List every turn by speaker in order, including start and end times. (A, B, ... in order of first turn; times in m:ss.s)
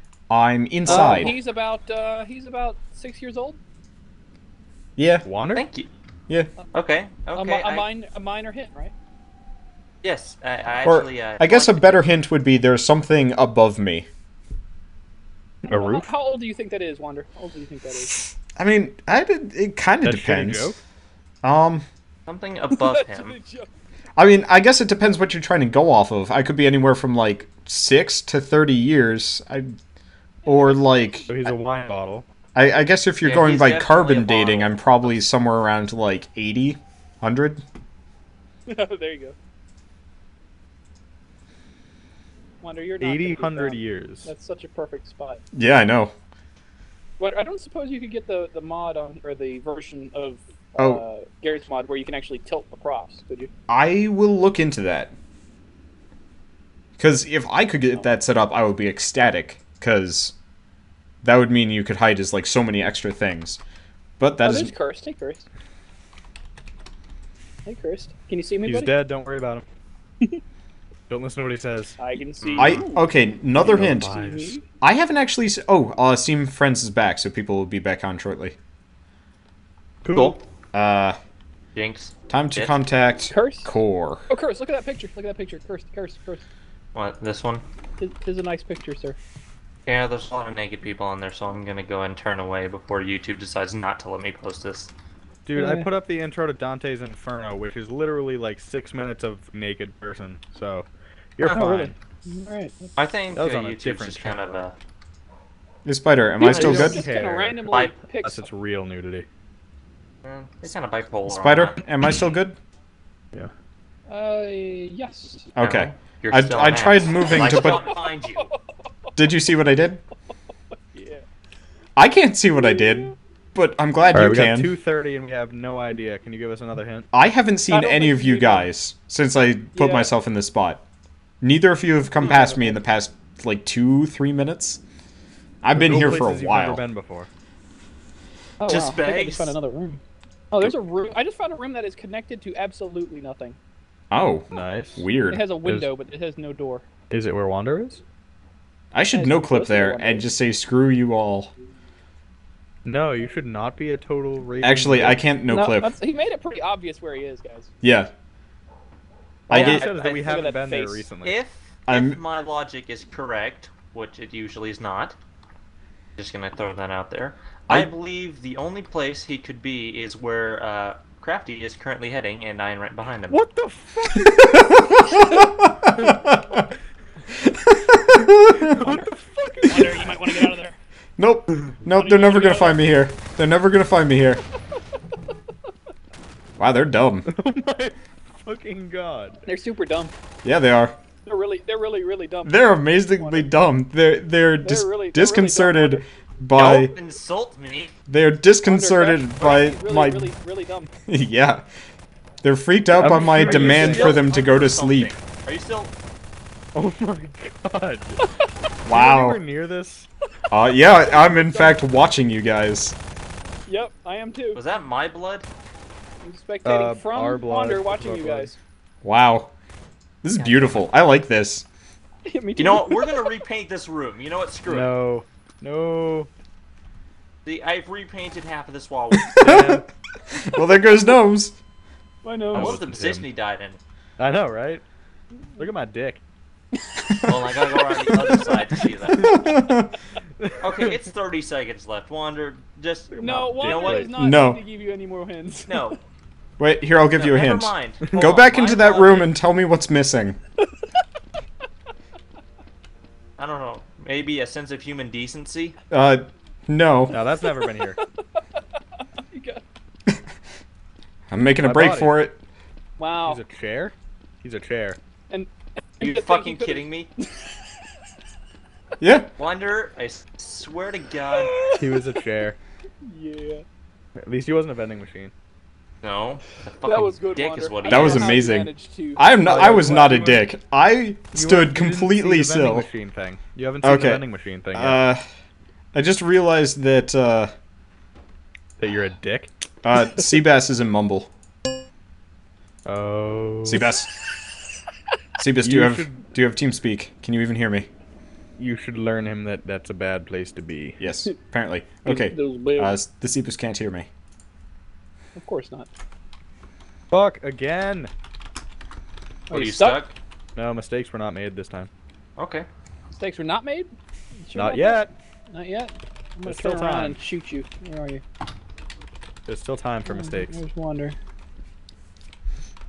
0:00.3-0:01.3 A
0:00.9-0:03.6 B
0:00.9-0:01.3 C
0:05.0-0:05.2 A
0:05.2-0:05.7 C
0:05.5-0:05.9 D
0:06.7-0:07.9 D
0:07.3-0:08.9 B
0:10.0-0:12.0 D
0:10.8-0:14.1 A
0:15.6-0:16.1 C
0:15.7-0:18.2 B
0:18.6-0:20.8 A
0:20.0-0:20.8 C
0:21.4-0:21.8 A
0:22.3-0:23.4 D
0:22.7-0:23.7 B
0:24.2-0:29.7 A
0:30.5-0:30.8 B
0:30.5-0:31.3 A
0:31.3-0:32.3 C
0:32.6-0:37.6 A
0:33.2-0:35.2 D
0:38.7-0:39.4 B
0:42.6-0:45.4 B
0:43.0-0:44.3 C
0:45.5-0:46.1 A
0:47.2-0:53.5 B
0:53.7-0:55.1 A
0:57.0-1:00.4 A
1:01.2-1:03.6 A
1:04.2-1:04.7 A
1:04.4-1:05.5 B
1:07.6-1:09.0 B
1:08.6-1:09.6 C
1:11.1-1:12.0 C
1:12.0-1:13.1 B
1:12.4-1:12.9 D
1:12.6-1:14.2 A
1:13.7-1:14.6 C
1:13.8-1:14.6 B
1:14.8-1:18.6 A
1:20.0-1:20.4 C
1:20.1-1:20.4 D
1:20.7-1:21.2 A
1:21.8-1:22.8 D
1:22.3-1:24.3 A
1:23.3-1:23.7 B
1:24.3-1:26.4 B
1:27.0-1:27.6 D
1:28.0-1:29.2 B
1:29.9-1:34.9 D
1:35.5-1:41.9 C
1:35.6-1:35.9 B
1:41.5-1:42.9 B
1:43.0-1:44.8 D
1:43.4-1:44.4 C
1:45.8-1:47.0 A
1:46.4-1:48.5 B
1:46.4-1:49.3 C
1:50.2-1:51.8 D
1:51.3-1:52.6 A
1:54.1-1:55.5 B
1:55.6-1:57.9 A
1:55.6-1:58.5 D
1:57.3-1:58.6 B
1:59.2-2:00.0 A
2:00.9-2:01.2 B
2:02.0-2:04.7 A
2:02.6-2:03.2 B
2:04.1-2:07.1 C
2:07.1-2:10.8 A
2:07.7-2:08.7 B
2:09.8-2:10.1 B
2:11.4-2:14.8 A
2:12.2-2:12.8 B
2:15.6-2:16.8 A
2:15.8-2:17.3 C
2:18.6-2:20.0 B
2:18.7-2:19.6 D
2:20.5-2:23.6 B
2:24.1-2:25.5 A
2:24.5-2:25.1 C
2:25.3-2:26.9 B
2:27.1-2:28.0 C
2:28.9-2:31.5 A
2:29.1-2:30.3 B
2:32.8-2:35.2 C
2:34.6-2:36.0 A
2:35.5-2:37.7 B
2:37.8-2:38.1 A
2:39.5-2:39.8 A
2:39.5-2:41.0 B
2:39.5-2:41.4 C
2:39.5-2:40.5 D
2:41.2-2:45.2 D
2:41.9-2:42.2 A
2:46.2-2:53.4 D
2:53.3-2:54.8 C
2:54.2-2:56.6 A
2:57.4-2:58.7 A
2:58.6-3:00.6 C
2:59.6-3:00.8 B
3:01.2-3:04.4 A
3:01.9-3:02.8 B
3:06.6-3:07.3 A
3:07.3-3:09.4 C
3:09.5-3:10.1 B
3:10.4-3:11.0 A
3:11.2-3:13.5 B
3:12.4-3:16.9 A
3:14.6-3:16.0 B
3:16.6-3:17.9 D
3:18.1-3:20.3 A
3:18.7-3:20.9 B
3:21.1-3:21.7 A
3:22.4-3:25.2 A
3:22.9-3:24.2 C
3:23.3-3:25.9 D
3:26.8-3:28.2 C
3:28.8-3:29.4 A
3:28.9-3:30.1 C
3:30.5-3:33.0 A
3:31.0-3:31.9 B
3:33.7-3:34.6 B
3:34.5-3:35.5 D
3:36.2-3:38.6 B
3:36.6-3:38.6 C
3:39.0-3:39.5 A
3:40.2-3:41.7 A
3:40.4-3:40.8 D
3:42.2-3:43.3 B
3:42.6-3:44.9 D
3:44.7-3:46.3 C
3:47.4-3:49.4 D
3:49.2-3:51.6 A
3:49.4-3:49.8 C
3:52.2-3:52.8 B
3:52.5-3:53.3 C
3:52.5-3:53.8 D
3:54.2-3:54.8 C
3:55.4-3:55.6 B
3:55.6-3:56.2 C
3:57.3-3:59.4 D
3:59.2-3:59.9 A
4:00.4-4:00.9 C
4:00.6-4:04.1 D
4:03.1-4:04.2 C
4:03.2-4:06.0 B
4:04.2-4:04.6 A
4:05.7-4:06.0 D
4:06.6-4:10.4 A
4:07.1-4:09.3 D
4:13.4-4:15.8 D
4:15.9-4:17.2 A
4:17.1-4:18.0 C
4:17.6-4:18.6 B
4:19.3-4:19.6 B
4:21.3-4:22.4 A
4:21.6-4:22.2 C
4:23.0-4:23.4 B
4:23.2-4:25.0 C
4:25.3-4:27.9 B
4:26.0-4:27.1 D
4:29.0-4:29.3 A
4:29.4-4:31.6 D
4:31.4-4:32.2 B
4:31.7-4:32.6 C
4:33.0-4:33.6 B
4:34.2-4:35.3 C
4:36.0-4:38.3 D
4:36.8-4:39.3 B
4:37.8-4:42.9 A
4:39.4-4:40.5 C
4:41.3-4:45.0 C
4:43.8-4:45.2 A
4:45.9-4:47.5 A
4:48.8-4:49.5 C
4:49.8-4:51.3 A
4:52.8-4:53.8 C
4:53.6-4:54.1 A
4:55.4-4:57.9 A
4:55.6-4:56.3 C
4:58.6-5:01.0 C
5:01.0-5:04.1 A
5:02.0-5:03.0 B
5:05.4-5:05.9 B
5:07.1-5:08.1 C
5:09.5-5:10.0 B
5:09.5-5:10.1 D
5:10.6-5:11.9 C
5:12.4-5:12.7 D
5:13.2-5:13.9 B
5:14.4-5:18.2 B
5:14.6-5:15.1 C
5:16.5-5:17.2 C
5:19.5-5:20.6 C
5:20.1-5:21.2 B